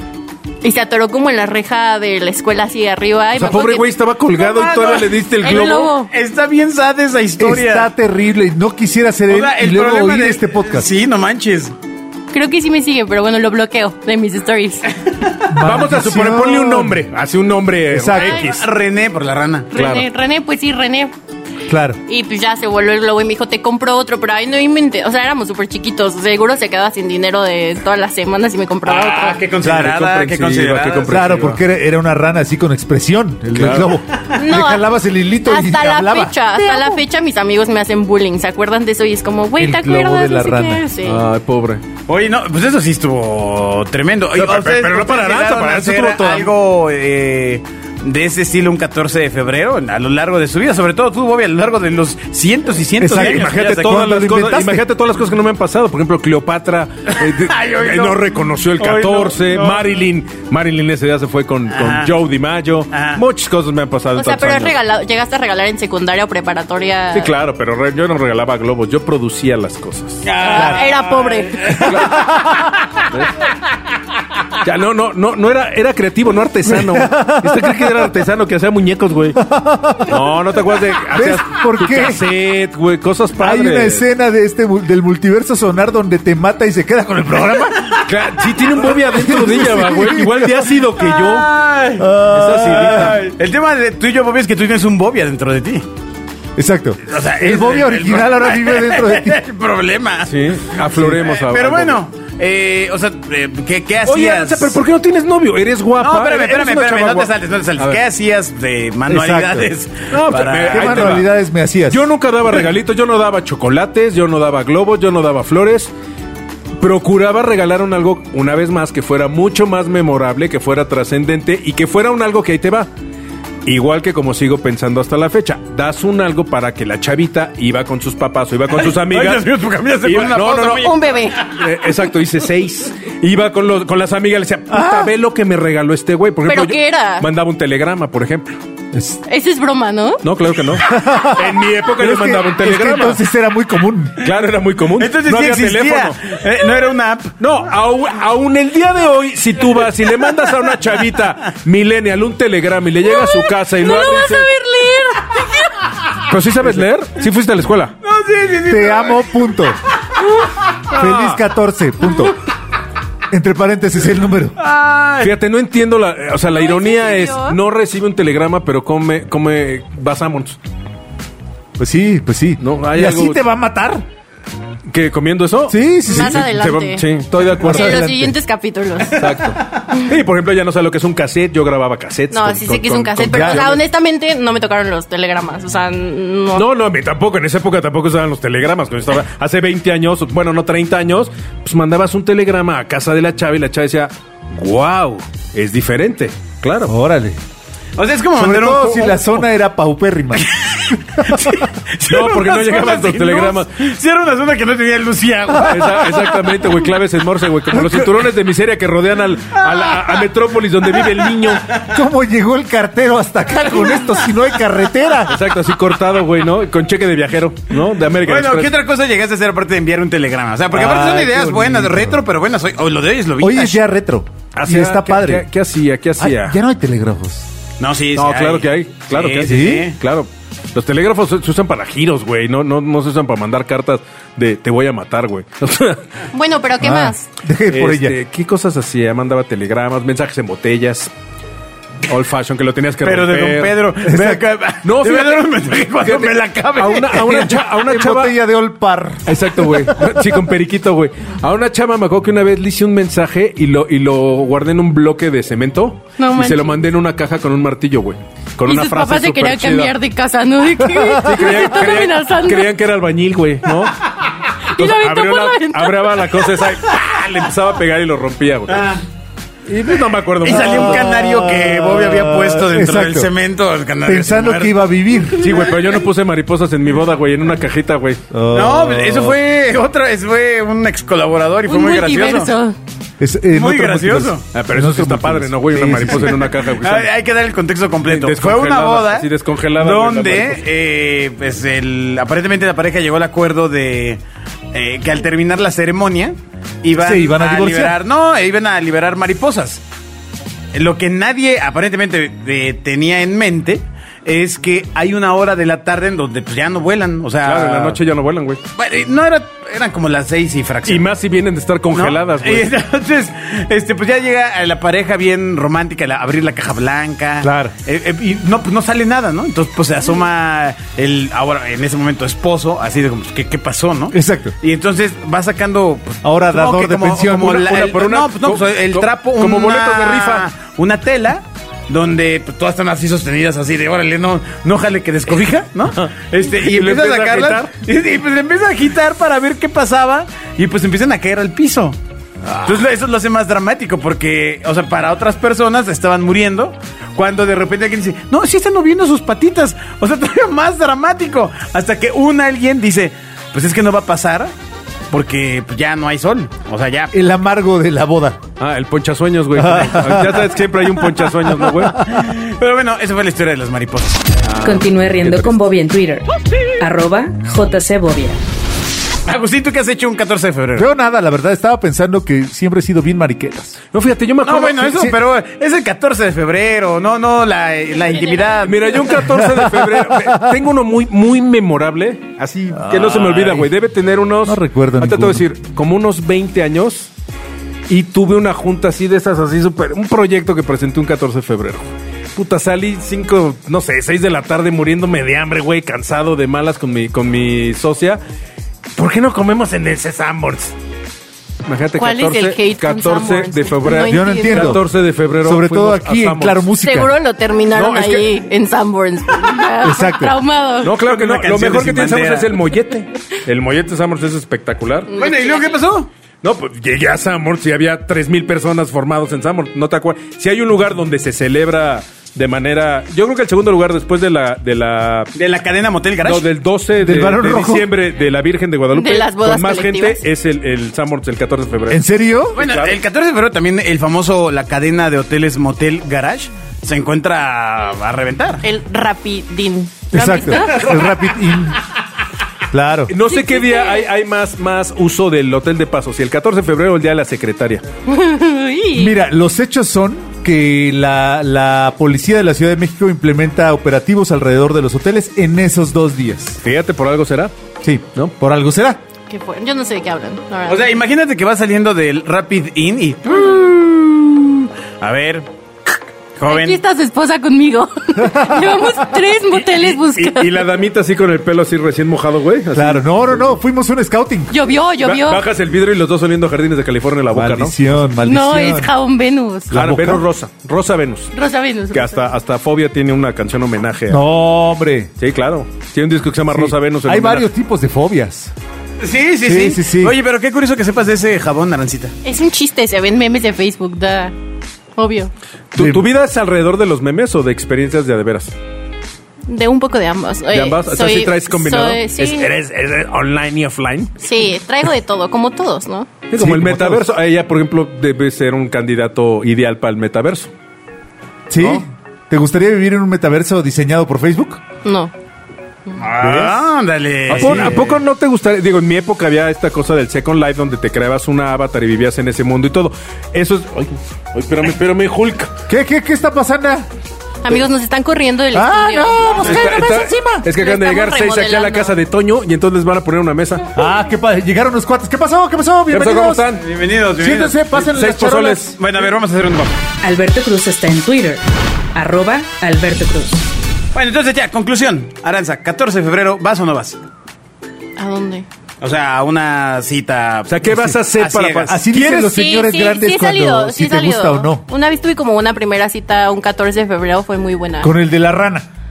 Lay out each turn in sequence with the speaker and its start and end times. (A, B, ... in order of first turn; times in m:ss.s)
0:00.6-0:03.8 A
0:03.3-0:05.9 B
0:04.3-0:07.9 C
0:05.4-0:06.1 A
0:07.4-0:10.9 D
0:09.3-0:11.7 C
0:12.3-0:14.9 A
0:15.5-0:17.0 D
0:15.6-0:18.7 B
0:17.9-0:18.4 D
0:18.2-0:19.7 C
0:19.7-0:21.1 A
0:19.7-0:20.1 B
0:21.7-0:22.0 D
0:22.1-0:29.4 A
0:28.8-0:31.3 C
0:29.6-0:30.0 D
0:29.6-0:31.6 B
0:31.1-0:37.0 D
0:33.5-0:33.9 B
0:34.3-0:34.9 A
0:35.4-0:41.2 A
0:39.6-0:40.8 D
0:41.0-0:41.8 B
0:42.1-0:53.9 C
0:44.3-0:46.5 B
0:53.0-0:54.8 D
0:53.0-1:04.7 B
0:57.2-0:59.8 C
1:01.7-1:02.1 C
1:02.9-1:03.2 C
1:04.1-1:07.3 A
1:07.1-1:10.3 B
1:10.2-1:11.9 C
1:10.4-1:11.9 A
1:10.5-1:10.8 D
1:11.8-1:12.4 B
1:12.0-1:12.7 D
1:12.9-1:13.5 B
1:14.6-1:19.4 B
1:16.6-1:18.1 D
1:19.4-1:20.3 D
1:20.0-1:24.0 B
1:21.1-1:22.2 D
1:23.4-1:27.9 D
1:28.0-1:31.5 B
1:29.1-1:30.7 D
1:30.9-1:32.1 C
1:32.0-1:33.2 D
1:32.3-1:33.3 B
1:32.6-1:35.8 C
1:36.6-1:39.4 D
1:37.1-1:44.8 C
1:40.3-1:42.0 B
1:44.0-1:48.0 B
1:46.0-1:51.2 C
1:49.1-1:49.7 D
1:50.1-1:51.3 B
1:50.7-1:52.0 D
1:51.9-1:55.9 B
1:56.8-2:02.9 B
2:03.6-2:18.5 B
2:08.7-2:11.1 C
2:10.8-2:11.5 A
2:14.7-2:15.1 D
2:16.4-2:17.3 A
2:18.9-2:19.2 D
2:19.2-2:20.2 A
2:20.2-2:23.2 B
2:20.9-2:24.2 D
2:24.2-2:26.2 B
2:25.0-2:27.4 C
2:27.4-2:34.5 B
2:33.0-2:35.7 A
2:36.2-2:37.9 B
2:38.0-2:39.3 C
2:38.6-2:39.8 D
2:40.9-2:42.4 D
2:41.0-2:41.3 B
2:43.3-2:44.6 D
2:44.6-2:45.3 C
2:45.2-2:50.6 B
2:46.5-2:47.6 A
2:51.8-2:54.0 D
2:52.6-2:53.4 B
2:54.9-2:58.0 B
2:55.7-2:56.5 D
2:56.1-2:57.0 A
2:57.6-2:58.3 D
2:57.6-2:59.2 A
2:59.1-3:03.8 B
3:02.3-3:06.6 A
3:03.2-3:03.7 D
3:06.5-3:16.9 B
3:16.8-3:17.4 D
3:18.0-3:19.4 C
3:18.4-3:20.5 D
3:20.4-3:26.8 C
3:21.1-3:21.6 D
3:22.1-3:23.7 B
3:25.6-3:31.8 B
3:27.7-3:28.2 D
3:29.7-3:30.1 C
3:31.0-3:31.8 C
3:31.8-3:35.4 D
3:35.2-3:38.7 B
3:38.2-3:43.8 C
3:40.7-3:42.2 D
3:43.4-3:45.4 D
3:44.5-3:46.6 B
3:46.2-3:47.5 D
3:47.8-3:50.0 C
3:48.1-3:56.0 B
3:49.4-3:49.9 D
3:56.3-3:57.2 A
3:56.8-3:58.2 D
3:57.7-4:01.1 B
4:02.1-4:03.8 B
4:03.0-4:07.5 C
4:04.0-4:04.4 D
4:04.8-4:08.3 B
4:07.3-4:10.2 D
4:09.2-4:19.9 B
4:16.2-4:16.8 A
4:18.6-4:22.7 A
4:21.0-4:21.3 D
4:21.1-4:24.0 B
4:24.7-4:26.3 A
4:24.7-4:28.9 B
4:28.7-4:29.0 C
4:29.7-4:31.1 B
4:30.4-4:34.8 C
4:30.5-4:33.3 D
4:34.0-4:35.6 D
4:35.4-4:38.2 B
4:38.3-4:39.4 D
4:38.5-4:42.5 C
4:41.7-4:42.8 A
4:43.2-4:46.5 D
4:43.5-4:44.4 C
4:44.5-4:47.1 B
4:46.7-4:54.2 C
4:48.0-4:50.6 B
4:54.7-4:59.8 C
4:56.9-4:58.0 D
5:00.7-5:08.0 C
5:07.4-5:08.6 B
5:08.8-5:11.1 C
5:10.8-5:12.7 B
5:11.9-5:54.5 C
5:17.4-5:17.7 D
5:24.1-5:24.5 D
5:26.2-5:27.7 D
5:27.3-5:30.5 B
5:36.0-5:37.7 B
5:55.1-5:57.1 C
5:57.1-5:58.4 D
5:58.6-6:02.0 B
5:59.5-6:02.2 D
6:02.1-6:04.3 C
6:04.4-6:05.6 B
6:04.6-6:06.2 E
6:06.8-6:08.4 E
6:09.2-6:10.9 C
6:10.8-6:13.8 D
6:13.9-6:15.0 B
6:14.4-6:19.2 C
6:14.8-6:15.2 D
6:18.1-6:18.7 A
6:18.6-6:27.1 B
6:19.2-6:20.6 D
6:22.7-6:23.7 D
6:24.4-6:25.5 D
6:27.9-6:38.2 B
6:39.0-6:40.7 B
6:41.6-6:46.7 B
6:42.0-6:44.8 A
6:44.0-6:47.1 D
6:46.8-6:50.9 A
6:47.8-6:48.2 B
6:49.8-6:50.4 D
6:50.8-6:55.1 B
6:50.9-6:52.5 C
6:55.1-6:55.8 A
6:55.1-6:56.1 C
6:56.4-7:05.3 B
7:05.3-7:06.4 C
7:06.2-7:12.0 B
7:07.0-7:07.9 D
7:08.9-7:10.2 A
7:11.9-7:12.6 D
7:12.6-7:13.0 B
7:12.6-7:18.6 C
7:18.6-7:21.0 A
7:20.1-7:21.8 D
7:22.7-7:23.1 D
7:23.1-7:27.8 B
7:23.3-7:24.0 A
7:28.1-7:29.2 A
7:28.9-7:36.6 D
7:36.6-7:37.5 B
7:37.8-7:39.0 D
7:39.3-7:40.8 A
7:40.7-7:45.5 C
7:46.4-7:46.8 C
7:46.5-7:50.6 A
7:48.2-7:49.1 D
7:49.5-7:53.4 B
7:52.7-7:54.6 D
7:54.5-7:55.4 A
7:55.0-7:57.8 B
7:57.3-7:58.9 D
7:58.2-7:59.7 A
7:59.7-8:00.2 D
7:59.7-8:01.3 B
8:01.3-8:02.3 A
8:01.9-8:04.2 B
8:04.1-8:05.1 D
8:05.2-8:07.5 B
8:06.5-8:08.5 D
8:09.0-8:12.1 C
8:09.4-8:10.2 D
8:12.2-8:14.3 A
8:15.0-8:15.3 A
8:15.7-8:18.5 B
8:15.8-8:16.1 D
8:19.5-8:22.5 A
8:20.5-8:24.2 B
8:24.2-8:26.1 A
8:26.3-8:30.5 B
8:26.4-8:27.1 D
8:31.5-8:34.6 D
8:31.6-8:31.8 B
8:34.8-8:35.1 A
8:36.0-8:36.6 B
8:36.0-8:38.0 C
8:36.2-8:36.5 D
8:37.3-8:45.5 B
8:37.3-8:37.8 D
8:45.7-8:46.9 D
8:47.4-8:49.8 A
8:48.5-8:50.4 D
8:49.4-8:53.7 B
8:50.5-8:52.0 A
8:53.7-8:56.4 D
8:55.9-8:56.6 B
8:56.6-8:57.6 C
8:57.2-8:58.7 D
8:57.8-8:58.8 B
8:58.8-8:59.8 C
9:00.0-9:01.4 E
9:01.9-9:03.4 E
9:03.9-9:07.0 C
9:08.0-9:08.4 A
9:08.8-9:11.8 C
9:10.5-9:12.3 B
9:11.7-9:14.6 D
9:12.0-9:17.9 A
9:17.8-9:18.7 D